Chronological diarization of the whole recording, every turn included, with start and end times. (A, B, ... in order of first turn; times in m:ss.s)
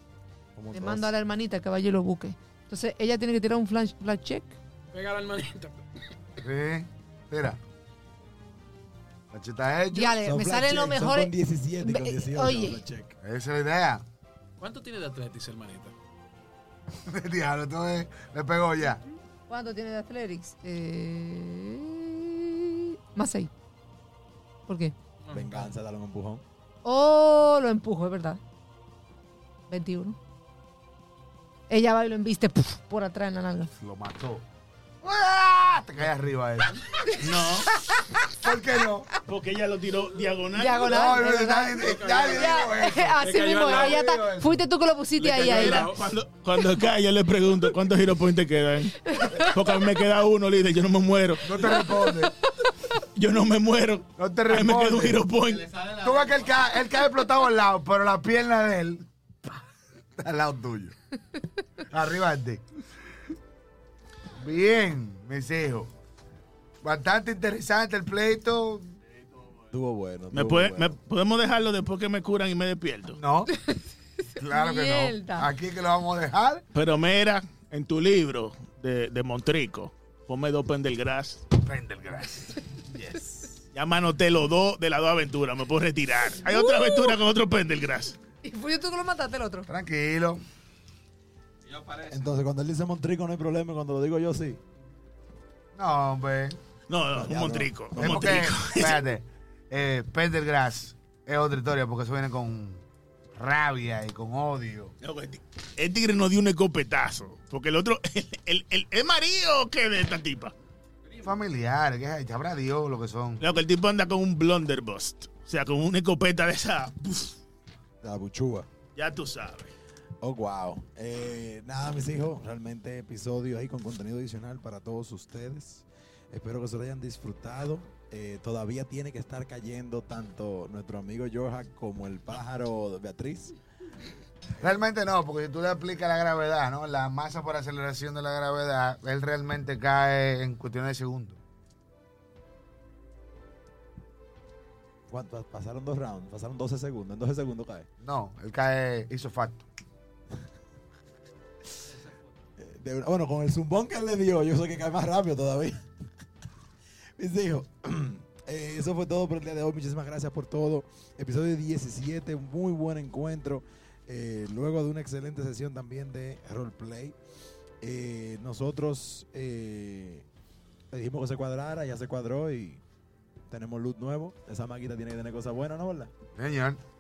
0:00.6-0:01.1 A
0:00.7-0:04.6 B
0:04.9-0:05.8 C
0:06.4-0:07.6 D
0:09.3-0:10.2 D
0:09.9-0:12.8 B
0:10.2-0:13.2 A
0:13.2-0:14.0 D
0:14.6-0:15.9 C
0:16.9-0:19.0 D
0:19.5-0:23.5 B
0:24.7-0:25.0 B
0:25.2-0:25.8 C
0:25.3-0:26.4 A
0:26.8-0:28.4 B
0:29.7-0:30.2 B
0:31.7-0:33.7 B
0:33.8-0:34.4 D
0:35.0-0:37.4 D
0:37.2-0:37.7 E
0:37.8-0:38.2 B
0:38.2-0:39.1 D
0:39.3-0:41.2 E
0:40.5-0:45.9 B
0:40.8-0:44.6 D
0:41.8-0:42.6 C
0:43.2-0:44.0 C
0:45.2-0:51.7 E
0:45.2-0:46.1 C
0:49.0-0:49.8 B
0:51.4-0:52.3 D
0:51.6-0:52.9 B
0:53.0-0:55.8 E
0:54.2-0:59.1 D
1:00.2-1:01.0 D
1:01.9-1:02.6 D
1:04.4-1:05.9 D
1:06.8-1:09.0 D
1:09.7-1:11.0 A
1:10.3-1:13.2 E
1:13.2-1:13.5 D
1:13.5-1:15.5 B
1:14.4-1:16.6 D
1:16.7-1:21.4 E
1:21.6-1:23.5 D
1:23.7-1:28.2 E
1:26.4-1:27.2 B
1:28.4-1:29.7 B
1:29.7-1:30.4 D
1:31.9-1:34.6 A
1:35.8-1:36.6 D
1:36.9-1:39.0 E
1:37.1-1:38.5 A
1:38.0-1:42.8 D
1:43.4-1:44.9 D
1:45.0-1:50.5 E
1:51.2-1:53.4 D
1:53.4-1:57.4 E
1:58.0-1:58.7 A
1:59.0-1:59.7 E
2:00.2-2:13.5 A
2:14.6-2:21.4 D
2:25.1-2:27.9 A
2:28.0-2:29.6 D
2:32.6-2:35.9 A
2:37.2-2:47.2 A
2:47.8-2:50.3 A
2:50.9-2:52.8 A
2:53.5-2:56.1 A
2:56.4-2:56.8 D